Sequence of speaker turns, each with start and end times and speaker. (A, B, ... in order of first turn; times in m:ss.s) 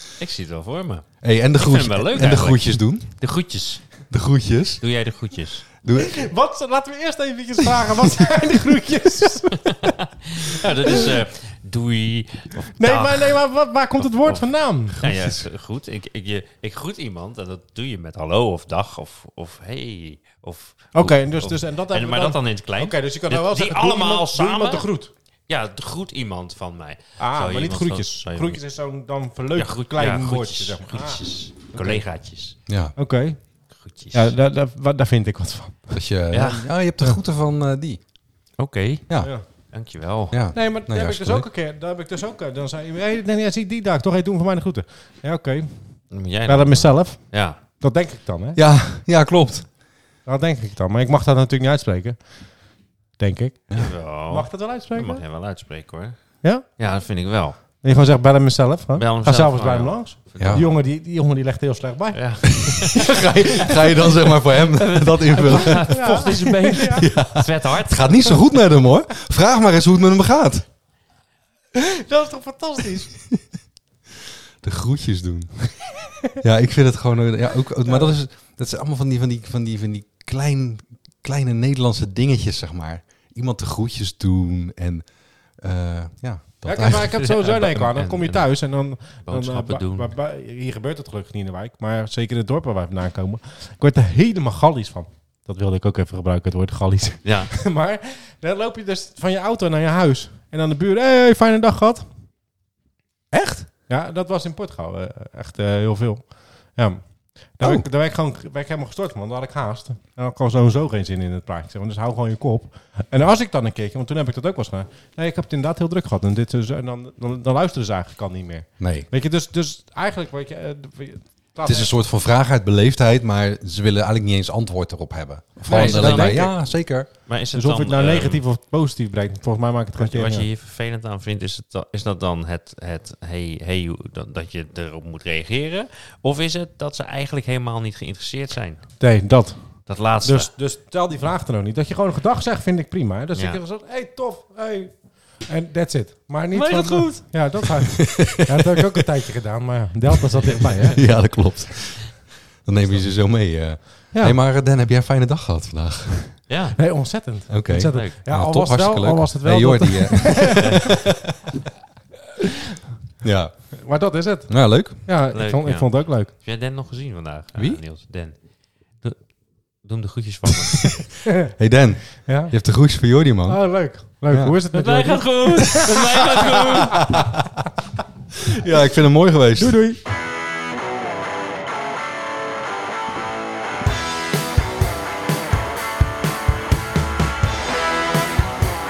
0:00.2-0:04.1 A
0:01.2-0:03.2 B
0:04.1-0:04.8 B
0:04.8-0:05.7 A
0:05.8-0:06.3 B
0:06.0-0:10.0 C
0:09.5-0:13.4 A
0:10.8-0:11.1 C
0:12.8-0:15.1 C
0:14.0-0:24.9 A
0:15.1-0:15.4 B
0:21.0-0:25.1 C
0:25.5-0:28.6 A
0:27.2-0:31.2 C
0:29.6-0:32.6 A
0:31.7-0:32.0 C
0:32.7-0:32.9 B
0:33.0-0:33.4 C
0:33.8-0:34.3 A
0:34.1-0:36.0 C
0:35.9-0:38.0 B
0:36.3-0:36.7 A
0:38.6-0:40.4 A
0:40.3-0:41.5 B
0:40.5-0:48.6 C
0:46.1-0:47.6 A
0:48.6-0:49.7 B
0:50.2-0:52.6 C
0:53.2-0:55.2 C
0:53.7-0:57.6 A
0:57.8-1:03.8 C
0:59.0-1:00.6 A
1:00.4-1:00.7 B
1:02.1-1:03.2 A
1:02.8-1:06.3 B
1:04.1-1:08.4 A
1:05.4-1:07.1 C
1:07.0-1:10.7 B
1:11.7-1:13.1 C
1:14.6-1:15.8 B
1:16.4-1:27.2 B
1:17.8-1:18.1 C
1:26.6-1:42.1 C
1:27.1-1:30.1 A
1:37.2-1:37.5 A
1:43.3-1:43.7 B
1:43.9-2:02.0 C
1:58.8-1:59.1 B
2:01.6-2:07.1 B
2:05.6-2:06.5 C
2:05.7-2:08.4 A
2:07.5-2:10.5 C
2:10.0-2:19.1 A
2:19.0-2:31.0 C
2:19.9-2:20.5 A
2:23.4-2:23.6 A
2:26.5-2:27.6 A
2:28.0-2:28.6 B
2:31.0-2:36.4 B
2:34.1-2:34.4 C
2:36.5-2:37.1 A
2:36.8-2:40.9 C
2:37.5-2:41.0 B
2:37.8-2:38.2 A
2:43.2-2:43.7 B
2:43.8-2:46.3 C
2:44.5-2:45.0 B
2:45.3-2:48.4 A
2:48.9-2:51.1 A
2:51.6-2:53.8 B
2:52.2-2:52.5 C
2:53.5-2:57.2 C
2:54.7-2:57.2 A
2:58.5-2:59.8 B
2:59.6-3:00.0 C